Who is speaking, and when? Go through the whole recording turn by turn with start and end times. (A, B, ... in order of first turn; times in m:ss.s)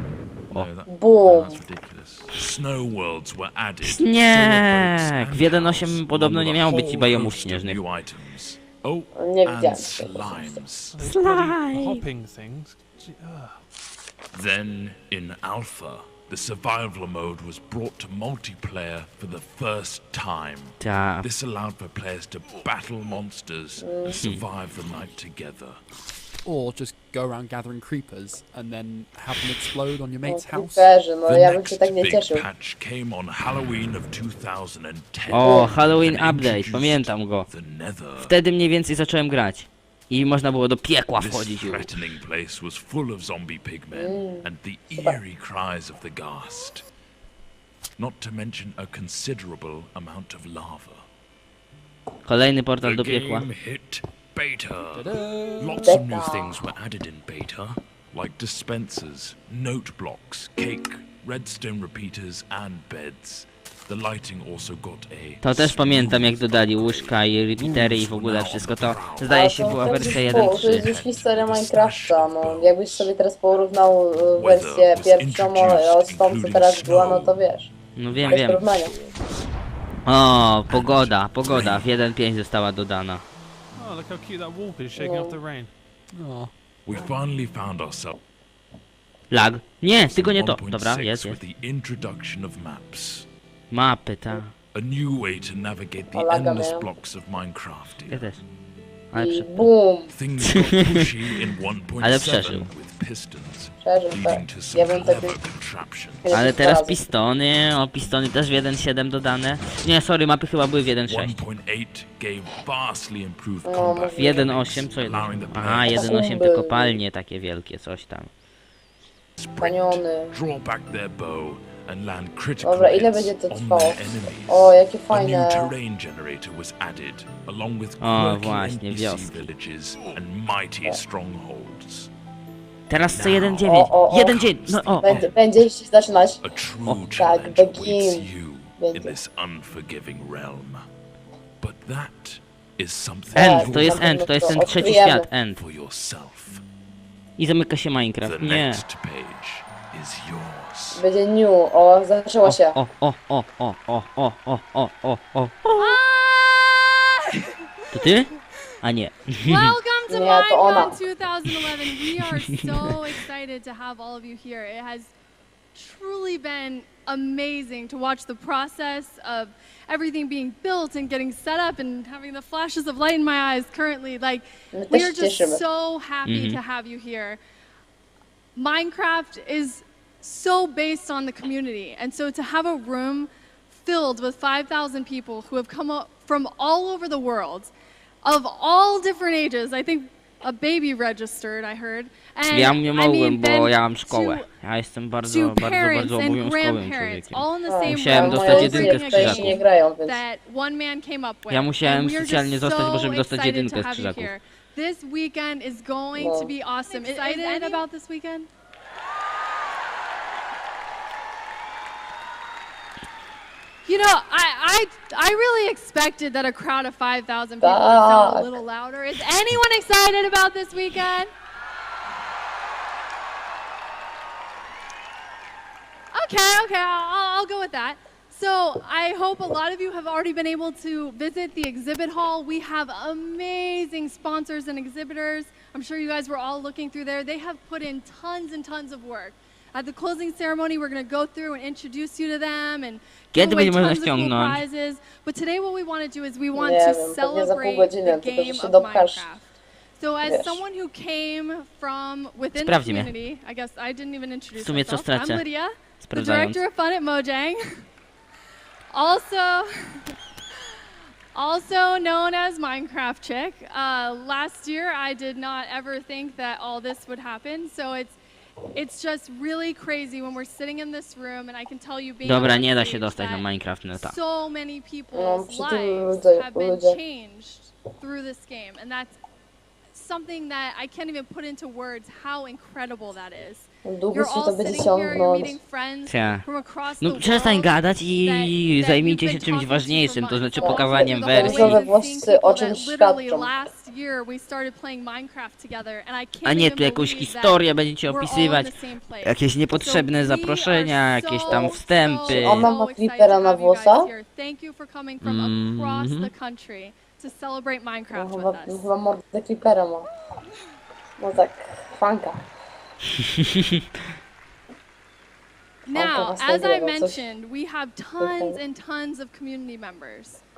0:00.5-0:11.0 A
0:00.9-0:01.6 B
0:03.8-0:07.8 C
0:09.2-0:10.6 B
0:10.9-0:13.6 D
0:11.0-0:12.1 C
0:14.3-0:25.8 A
0:20.8-0:21.3 C
0:23.8-0:24.2 B
0:26.4-0:30.9 E
0:30.3-0:32.5 B
0:31.3-0:38.3 A
0:35.3-0:37.5 C
0:35.4-0:35.7 B
0:38.2-0:41.9 C
0:41.2-0:46.8 A
0:43.9-0:45.2 B
0:48.0-0:51.0 A
0:52.3-0:53.5 C
0:52.8-1:13.2 A
0:54.9-0:56.0 E
0:55.8-0:56.8 B
1:05.4-1:10.9 C
1:09.2-1:17.7 B
1:14.3-1:17.4 A
1:18.0-1:18.7 C
1:18.3-1:18.9 B
1:20.1-1:23.2 C
1:20.7-1:21.9 A
1:23.7-1:25.7 D
1:25.0-1:25.4 B
1:26.1-1:26.5 E
1:26.9-1:28.2 A
1:29.3-1:31.4 C
1:30.0-1:33.3 A
1:33.7-1:34.5 C
1:34.7-1:38.3 A
1:36.1-1:36.9 B
1:38.1-1:38.4 C
1:39.1-1:39.6 C
1:39.1-1:40.1 B
1:40.1-1:46.3 A
1:40.4-1:41.0 C
1:42.0-1:42.7 C
1:43.8-1:45.4 B
1:46.2-1:47.0 B
1:46.3-1:51.4 C
1:51.1-1:56.3 A
1:53.6-1:54.5 B
1:54.2-1:58.3 C
1:55.9-1:57.0 B
1:59.4-2:12.1 A
1:59.6-2:00.4 B
2:02.6-2:05.8 B
2:08.0-2:09.5 C
2:12.9-2:15.2 C
2:13.1-2:15.4 A
2:13.7-2:14.5 B
2:15.0-2:16.4 B
2:16.4-2:20.8 A
2:17.0-2:19.2 B
2:21.6-2:24.2 A
2:23.3-2:25.3 B
2:23.3-2:25.6 C
2:25.6-2:26.6 A
2:27.4-2:28.8 C
2:28.2-2:31.0 A
2:30.9-2:32.8 B
2:32.4-2:36.0 C
2:35.8-2:37.3 F
2:37.9-2:38.3 C
2:38.8-2:39.7 C
2:39.4-2:45.1 F
2:40.1-2:41.0 B
2:45.8-2:57.4 F
2:54.7-2:55.6 B
2:56.3-2:56.6 C
2:58.6-3:07.7 F
3:08.2-3:14.5 F
3:12.5-3:19.6 C
3:15.2-3:28.5 F
3:17.7-3:20.2 B
3:21.5-3:24.3 C
3:26.2-3:26.5 B
3:33.9-3:41.3 F
3:37.6-3:38.6 B
3:46.1-4:17.8 F
4:03.3-4:04.6 C
4:06.6-4:09.3 B
4:10.2-4:10.6 B
4:12.6-4:13.1 C
4:14.6-4:15.4 C
4:16.0-4:16.6 C
4:18.9-4:20.0 F
4:21.3-4:28.2 F
4:28.7-4:39.2 F
4:32.2-4:34.2 C
4:35.1-4:37.0 B
4:39.9-5:08.8 F
4:43.9-4:45.6 B
4:46.1-4:46.4 C
4:47.0-4:51.9 C
4:50.6-4:53.5 B
4:56.4-4:58.7 C
4:59.2-5:02.7 C
5:01.5-5:01.8 B
5:02.3-5:04.1 B
5:05.2-5:06.3 C
5:08.1-5:10.1 B
5:11.2-5:12.4 B
5:15.8-5:20.4 F
5:15.9-5:17.2 B
5:18.2-5:18.6 B